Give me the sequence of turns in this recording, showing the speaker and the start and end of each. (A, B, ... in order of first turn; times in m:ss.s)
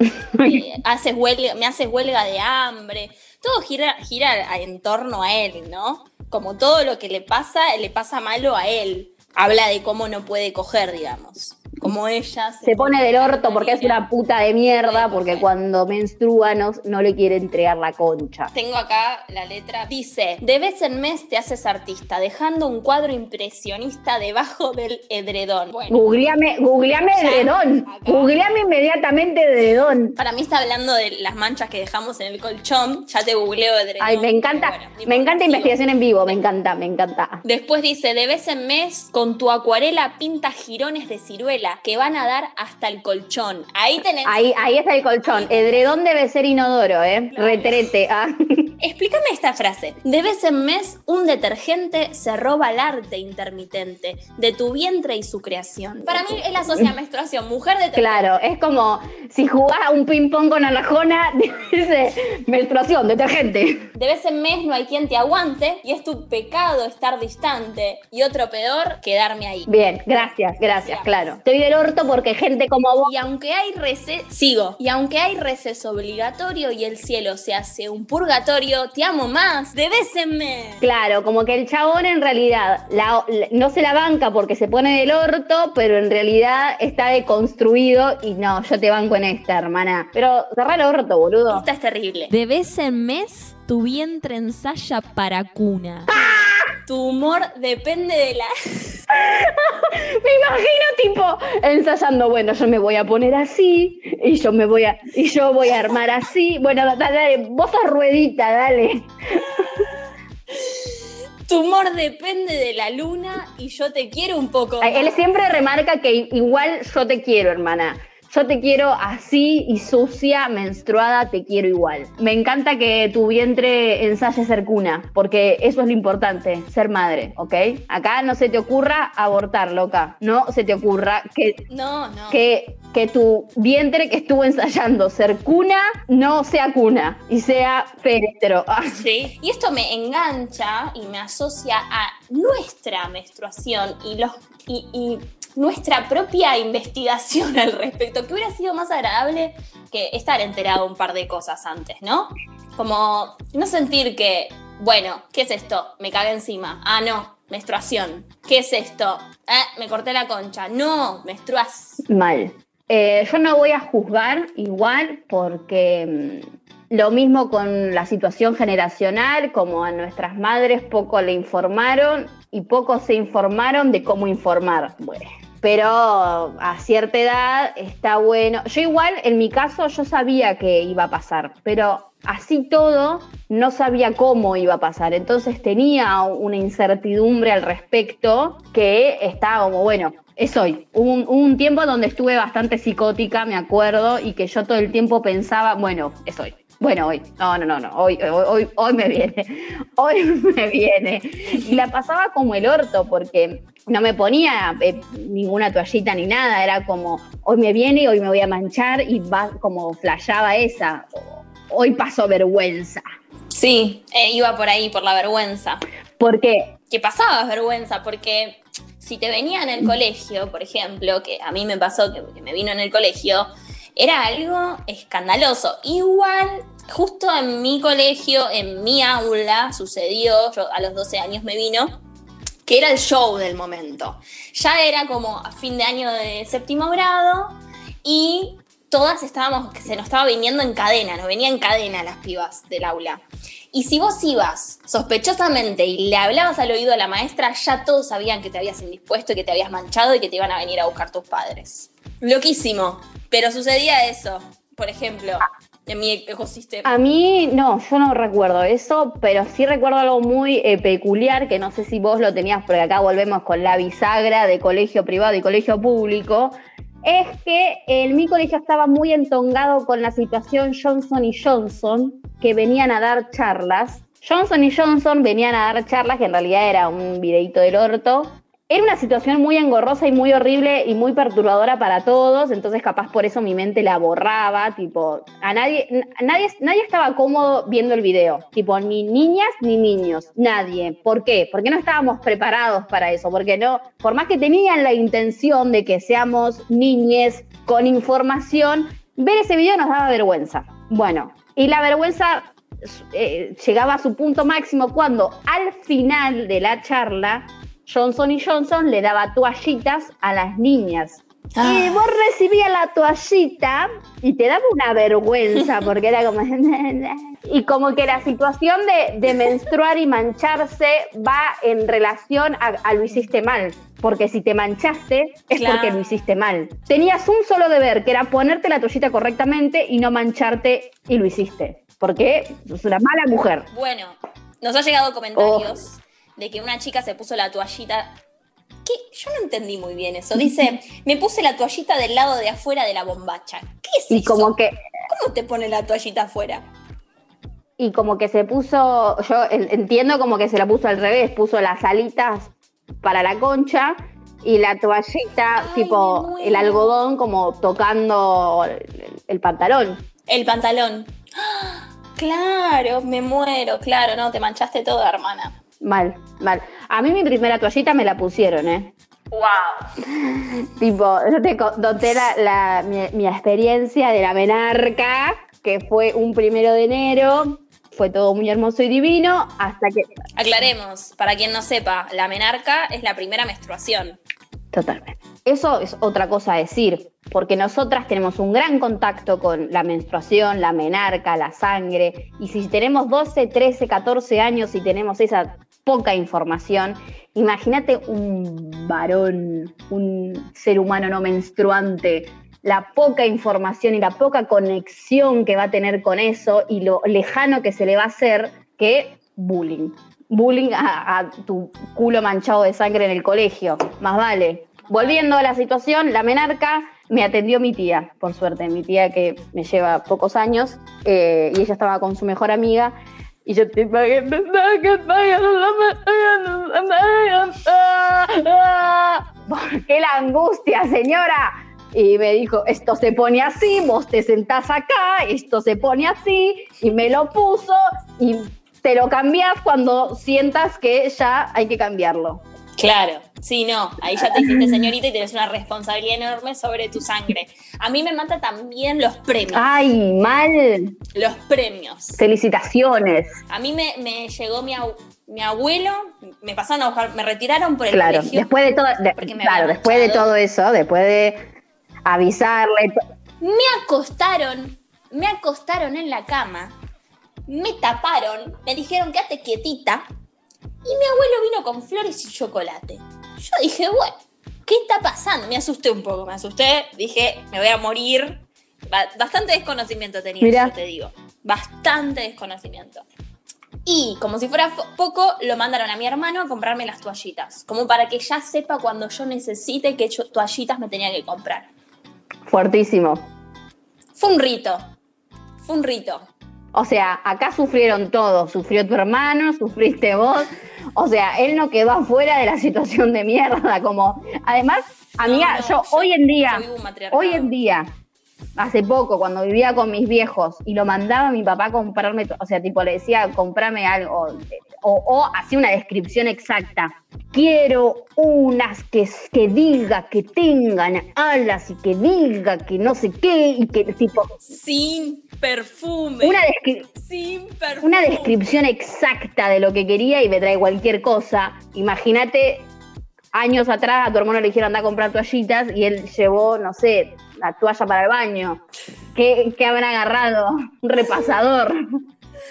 0:00.3-0:00.6 A
0:00.4-0:14.1 B
0:12.6-0:18.5 A
0:14.6-0:15.5 B
0:18.5-0:26.0 B
0:25.9-0:30.2 A
0:27.1-0:28.3 B
0:30.2-0:36.4 B
0:34.0-0:37.4 A
0:37.4-0:44.4 B
0:44.2-0:48.7 A
0:45.2-0:45.9 B
0:47.3-0:47.8 B
0:48.8-0:58.3 B
0:57.9-1:03.8 A
1:03.9-1:11.4 B
1:09.7-1:13.1 A
1:13.0-1:20.8 B
1:20.8-1:31.6 A
1:31.5-1:32.3 B
1:32.3-1:36.1 C
1:36.2-1:36.5 A
1:36.8-1:39.0 B
1:39.1-1:49.6 A
1:49.6-1:49.9 B
1:50.5-1:50.9 B
1:51.5-1:55.2 B
1:54.8-2:11.6 A
2:11.7-2:12.4 B
2:12.3-2:19.0 A
2:18.9-2:42.0 B
2:42.1-3:33.0 A
3:33.5-3:35.8 B
3:36.2-3:36.7 A
3:36.9-3:52.0 B
3:52.6-4:17.0 B
4:16.8-5:33.7 A
5:11.5-5:12.0 B
5:25.5-5:26.3 B
5:33.7-5:38.2 B
5:35.3-5:35.8 A
5:38.8-5:44.5 B
5:44.1-5:44.8 A
5:45.1-5:46.6 B
5:47.8-6:00.0 A
5:55.5-5:57.0 B
6:00.3-6:05.6 B
6:05.8-6:08.9 A
6:09.3-6:09.8 B
6:10.1-6:20.1 A
6:20.4-6:24.2 B
6:24.7-7:22.4 A
6:54.9-6:55.2 B
7:22.8-7:29.8 B
7:24.2-7:24.7 A
7:29.5-7:31.0 A
7:31.1-7:32.2 B
7:32.2-7:33.4 A
7:33.5-7:40.3 B
7:37.9-7:41.4 A
7:42.0-7:42.9 A
7:43.4-7:46.7 B
7:47.5-7:50.0 B
7:50.8-8:03.0 B
8:00.4-8:00.7 A
8:03.8-8:11.7 B
8:12.4-8:13.3 A
8:14.2-8:14.8 B
8:15.6-8:16.3 B
8:16.7-8:27.9 A
8:25.2-8:27.5 B
8:28.6-8:44.4 A
8:44.4-8:46.4 B
8:46.2-8:46.9 A
8:46.9-8:48.4 B
8:47.8-8:52.7 A
8:53.3-8:58.6 A
8:59.1-9:01.8 A